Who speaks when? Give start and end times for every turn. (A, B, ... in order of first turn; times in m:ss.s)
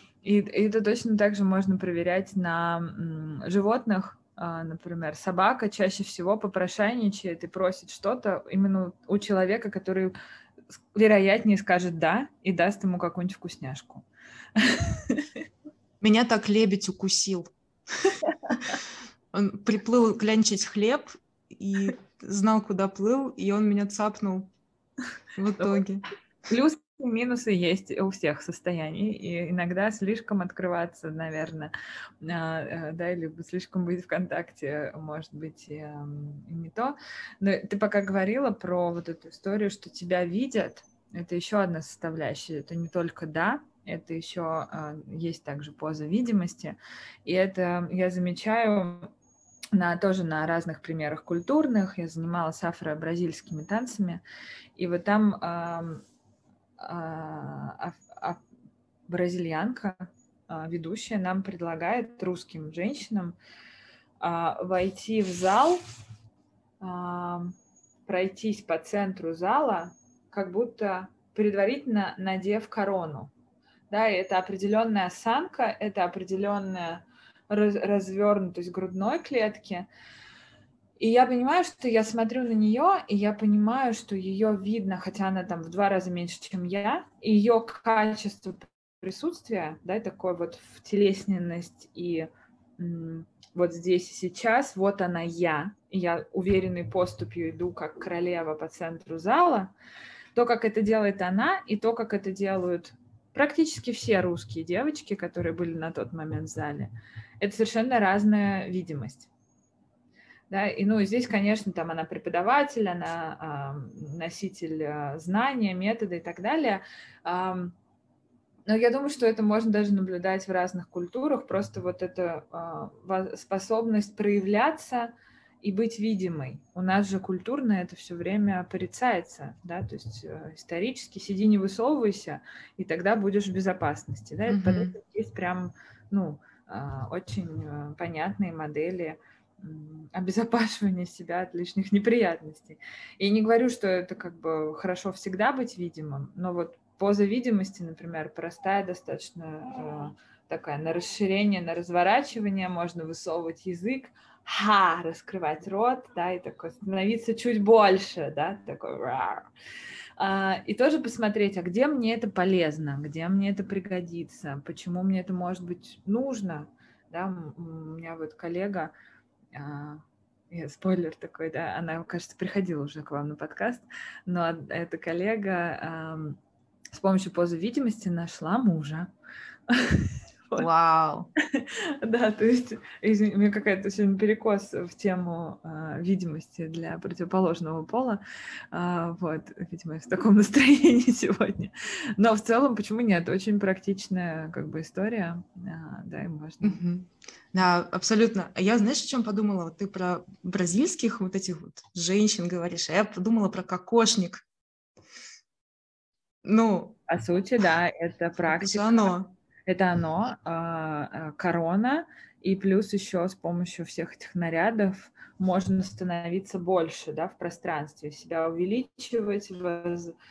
0:00.2-0:10.1 A
0:10.7-0:15.4 A
0:16.0-0:17.5 B
0:19.3-0:24.5 B
0:25.4-0:26.0 B
0:26.5-0:49.1 A
0:49.7-0:54.2 A
0:54.8-0:56.0 A
0:56.8-0:58.4 A
0:59.1-1:03.4 A
1:04.2-1:05.8 A
1:06.8-1:13.3 A
1:13.9-1:19.9 A
1:21.0-1:39.7 A
1:40.3-1:49.3 A
1:50.5-1:57.8 A
1:58.7-2:39.5 A
2:14.5-2:15.0 B
2:40.2-2:48.9 A
2:49.5-2:56.4 A
2:56.9-2:59.1 A
2:59.7-3:00.7 A
3:00.6-3:01.3 B
3:01.4-3:08.2 A
3:08.7-3:16.8 A
3:16.6-3:24.4 B
3:26.4-3:27.0 B
3:27.1-3:29.1 A
3:28.5-3:29.3 B
3:29.6-3:40.2 A